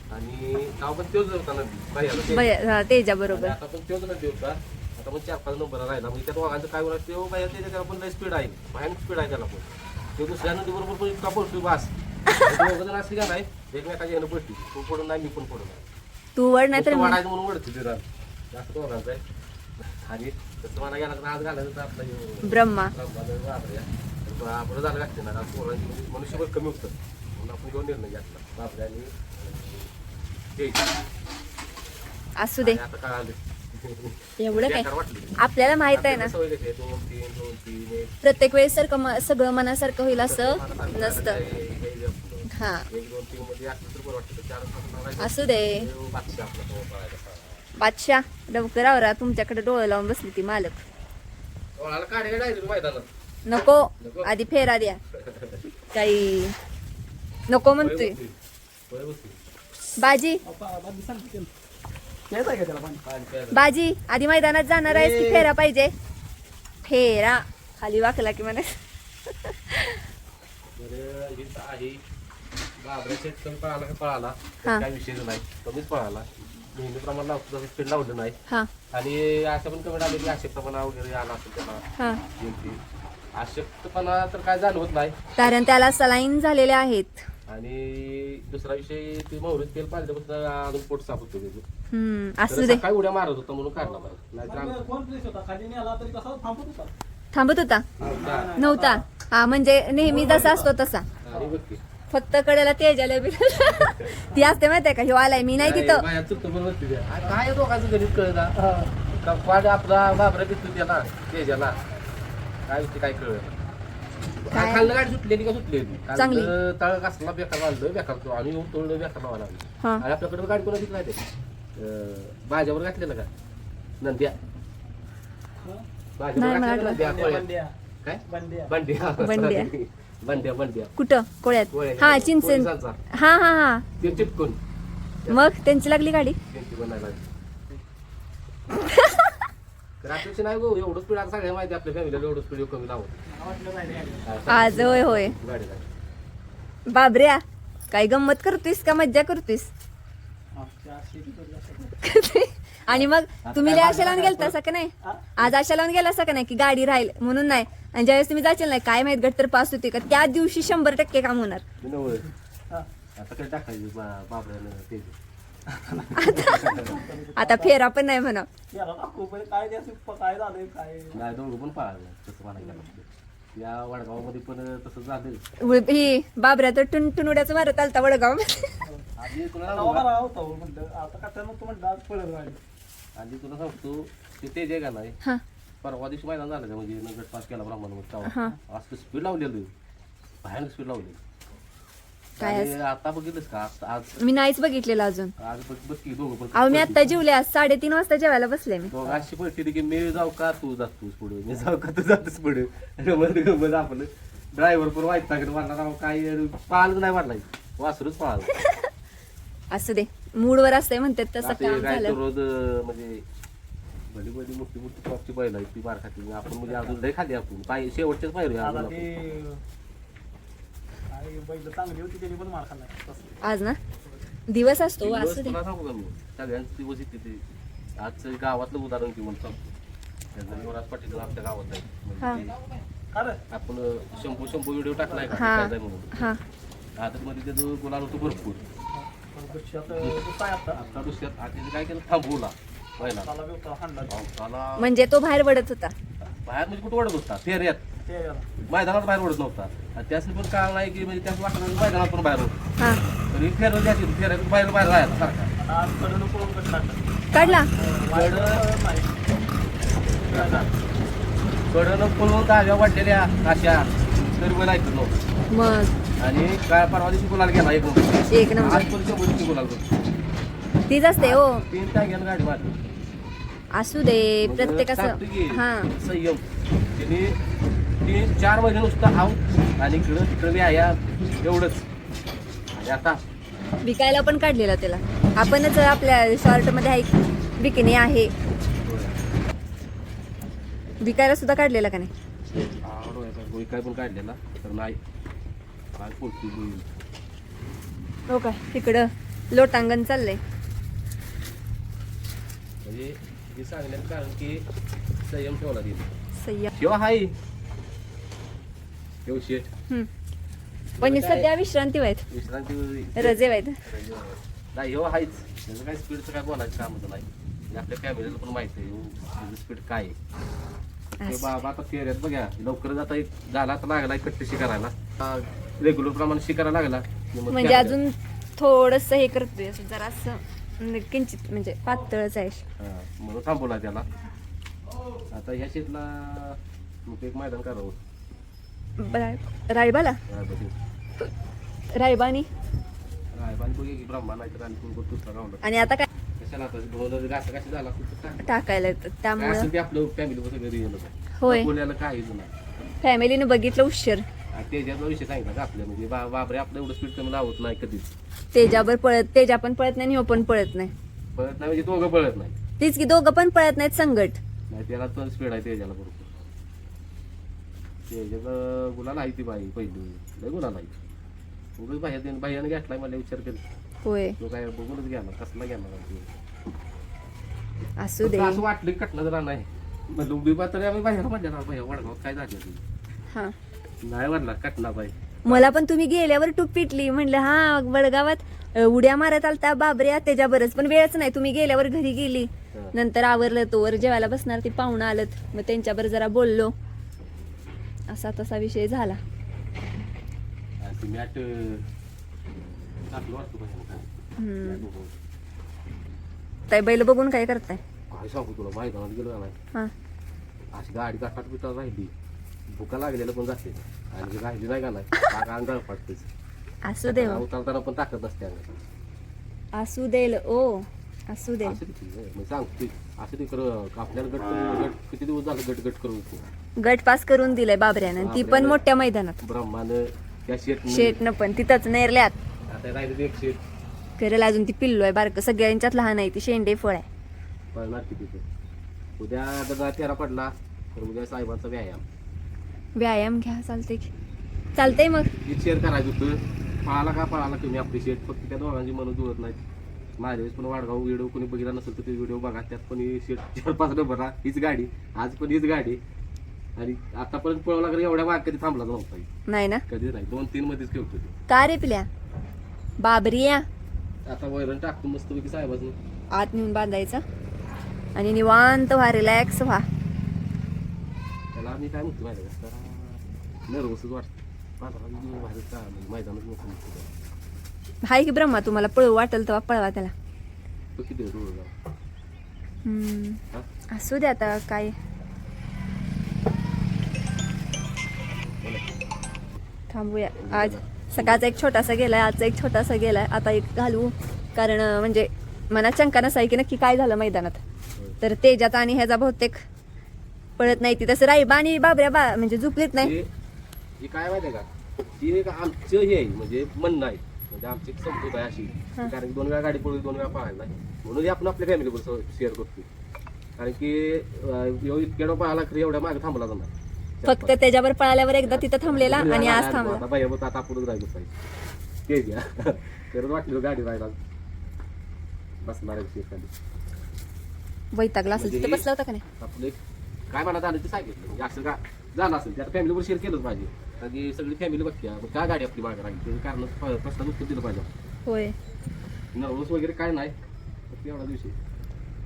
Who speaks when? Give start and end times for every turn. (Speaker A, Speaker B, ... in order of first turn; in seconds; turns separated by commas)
Speaker A: 0.1-2.5, Speaker B: 2.3-3.5, Speaker A: 3.3-15.8, Speaker B: 16.4-17.2, Speaker A: 16.7-19.2, Speaker A: 19.8-29.9, Speaker B: 22.4-22.9, Speaker A: 30.5-30.9, Speaker B: 32.4-32.8, Speaker A: 32.6-35.3, Speaker B: 34.4-36.3, Speaker A: 35.9-38.1, Speaker B: 38.2-41.4, Speaker A: 40.1-47.6, Speaker B: 42.5-42.9, Speaker B: 45.2-45.9, Speaker B: 47.8-50.8, Speaker A: 51.8-53.1, Speaker B: 53.5-55.0, Speaker A: 54.0-54.3, Speaker A: 55.1-55.6, Speaker B: 55.9-56.5, Speaker B: 57.5-58.1, Speaker A: 57.8-58.3, Speaker A: 58.9-59.4, Speaker B: 60.0-60.4, Speaker C: 60.4-61.5, Speaker C: 62.3-63.0, Speaker A: 63.0-63.7, Speaker B: 63.5-65.9, Speaker A: 64.9-65.5, Speaker B: 66.8-68.8, Speaker B: 69.4-70.0, Speaker A: 70.8-72.0, Speaker A: 72.8-78.3, Speaker A: 78.9-81.8, Speaker A: 82.4-82.8, Speaker A: 83.3-85.5, Speaker B: 85.4-87.3, Speaker A: 87.5-91.6, Speaker B: 91.9-92.8, Speaker A: 92.5-94.8, Speaker C: 94.4-96.9, Speaker B: 97.3-97.9, Speaker A: 98.0-98.6, Speaker C: 98.0-99.0, Speaker B: 98.6-101.1, Speaker C: 100.0-100.7, Speaker A: 101.2-101.8, Speaker B: 102.1-106.0, Speaker A: 103.7-104.2, Speaker A: 105.6-108.5, Speaker C: 108.5-109.0, Speaker A: 109.1-111.8, Speaker A: 112.7-113.5, Speaker A: 114.5-121.2, Speaker B: 114.5-114.9, Speaker B: 116.2-116.5, Speaker A: 121.8-123.3, Speaker A: 124.0-124.4, Speaker A: 126.2-127.5, Speaker B: 126.4-127.0, Speaker C: 127.0-127.7, Speaker A: 128.0-130.9, Speaker C: 128.3-128.7, Speaker B: 129.2-129.7, Speaker B: 131.0-133.9, Speaker A: 131.7-133.0, Speaker A: 134.0-134.6, Speaker B: 135.3-136.4, Speaker A: 136.5-137.2, Speaker B: 138.8-139.3, Speaker A: 140.0-143.2, Speaker C: 143.2-144.8, Speaker A: 144.2-145.9, Speaker B: 144.5-145.3, Speaker B: 146.9-149.7, Speaker C: 150.5-152.0, Speaker B: 152.0-161.6, Speaker A: 152.9-154.5, Speaker C: 155.0-155.3, Speaker A: 161.8-162.3, Speaker A: 163.2-165.2, Speaker C: 165.7-167.8, Speaker B: 166.2-166.8, Speaker A: 166.2-167.0, Speaker B: 167.3-168.5, Speaker C: 168.7-171.2, Speaker A: 171.1-175.4, Speaker B: 175.6-178.8, Speaker C: 178.8-179.1, Speaker A: 179.2-180.1, Speaker C: 179.7-182.6, Speaker A: 183.2-185.2, Speaker A: 185.8-189.7, Speaker B: 188.2-188.5, Speaker A: 190.4-191.2, Speaker A: 192.4-194.2, Speaker B: 192.4-192.8, Speaker B: 194.2-195.3, Speaker A: 195.4-197.1, Speaker B: 196.5-198.9, Speaker A: 198.9-208.5, Speaker B: 209.7-212.2, Speaker A: 211.4-213.2, Speaker A: 214.1-219.2, Speaker C: 218.6-219.6, Speaker C: 221.1-223.3, Speaker B: 223.4-223.8, Speaker B: 224.5-225.6, Speaker A: 225.0-227.4, Speaker A: 228.0-229.6, Speaker A: 230.3-232.6, Speaker C: 233.1-233.4, Speaker A: 233.5-236.2, Speaker C: 235.1-235.4, Speaker B: 235.3-236.4, Speaker A: 237.0-238.6, Speaker C: 238.9-240.8, Speaker A: 239.9-240.2, Speaker A: 240.7-243.3, Speaker C: 243.0-244.1, Speaker A: 244.1-244.9, Speaker B: 244.8-245.9, Speaker A: 246.2-247.8, Speaker C: 248.1-248.5, Speaker A: 248.7-252.6, Speaker A: 253.3-255.5, Speaker C: 255.6-259.1, Speaker B: 257.3-257.7, Speaker A: 258.1-258.6, Speaker C: 260.3-260.7, Speaker A: 260.3-260.7, Speaker A: 261.7-265.1, Speaker B: 265.5-265.9, Speaker A: 266.2-269.9, Speaker B: 268.3-268.9, Speaker B: 270.9-271.6, Speaker A: 271.2-272.8, Speaker B: 273.8-275.9, Speaker A: 274.4-276.4, Speaker A: 277.0-277.4, Speaker A: 278.0-281.9, Speaker A: 282.7-283.2, Speaker B: 283.8-288.3, Speaker A: 288.8-289.2, Speaker B: 291.0-292.1, Speaker A: 292.8-295.0, Speaker A: 296.0-296.9, Speaker B: 298.3-300.4, Speaker A: 302.8-304.6, Speaker A: 305.2-306.1, Speaker B: 306.4-306.7, Speaker A: 306.7-307.3, Speaker A: 309.2-309.7, Speaker A: 311.0-311.5, Speaker B: 311.0-312.2, Speaker A: 312.3-320.1, Speaker B: 313.2-313.8, Speaker B: 321.2-321.6, Speaker A: 321.2-328.0, Speaker B: 327.5-332.6, Speaker A: 332.8-334.1, Speaker A: 335.3-338.0, Speaker B: 339.0-340.2, Speaker A: 340.3-340.8, Speaker B: 341.9-342.5, Speaker A: 343.3-345.9, Speaker B: 345.6-346.1, Speaker A: 346.4-348.5, Speaker B: 348.4-349.7, Speaker A: 349.4-352.6, Speaker B: 351.4-351.7, Speaker B: 353.0-354.2, Speaker A: 354.5-358.1, Speaker B: 358.5-360.9, Speaker A: 361.3-362.6, Speaker B: 362.8-364.4, Speaker A: 364.7-366.3, Speaker A: 368.1-370.9, Speaker A: 371.8-373.6, Speaker B: 374.0-374.4, Speaker A: 374.4-376.3, Speaker B: 378.0-378.6, Speaker A: 378.2-382.8, Speaker A: 384.0-385.7, Speaker B: 385.5-396.7, Speaker B: 398.1-399.2, Speaker A: 400.8-401.9, Speaker A: 403.1-404.1, Speaker B: 404.4-404.9, Speaker A: 404.6-405.1, Speaker B: 406.7-407.8, Speaker A: 408.1-409.6, Speaker A: 410.7-412.1, Speaker A: 412.7-416.3, Speaker B: 416.9-417.4, Speaker A: 417.1-418.8, Speaker B: 419.8-421.8, Speaker A: 421.6-426.4, Speaker B: 426.8-429.4, Speaker A: 428.2-428.8, Speaker A: 429.4-431.2, Speaker B: 430.9-432.4, Speaker A: 432.7-433.6, Speaker B: 434.2-437.1, Speaker A: 437.7-438.4, Speaker A: 439.2-442.0, Speaker B: 443.0-444.1, Speaker B: 444.8-445.3, Speaker A: 445.4-449.6, Speaker A: 450.2-456.0, Speaker A: 456.8-459.3, Speaker B: 459.5-459.8, Speaker A: 459.9-461.4, Speaker B: 461.5-462.1, Speaker B: 463.0-463.6, Speaker A: 464.2-466.0, Speaker B: 466.3-467.2, Speaker B: 468.1-469.8, Speaker A: 471.5-477.1, Speaker B: 478.1-480.1, Speaker A: 481.0-481.7, Speaker B: 482.8-484.9, Speaker B: 489.9-497.6, Speaker A: 490.4-491.6, Speaker B: 498.2-499.6, Speaker B: 500.6-503.1, Speaker A: 503.0-503.3, Speaker A: 504.0-504.7, Speaker A: 505.2-512.9, Speaker A: 513.6-517.6, Speaker B: 517.2-520.0, Speaker A: 518.5-521.3, Speaker A: 522.0-524.2, Speaker A: 525.6-526.5, Speaker B: 527.9-529.2, Speaker A: 528.3-528.8, Speaker A: 529.4-529.8, Speaker A: 530.3-537.9, Speaker B: 538.2-538.5, Speaker A: 539.3-540.3, Speaker A: 540.9-541.5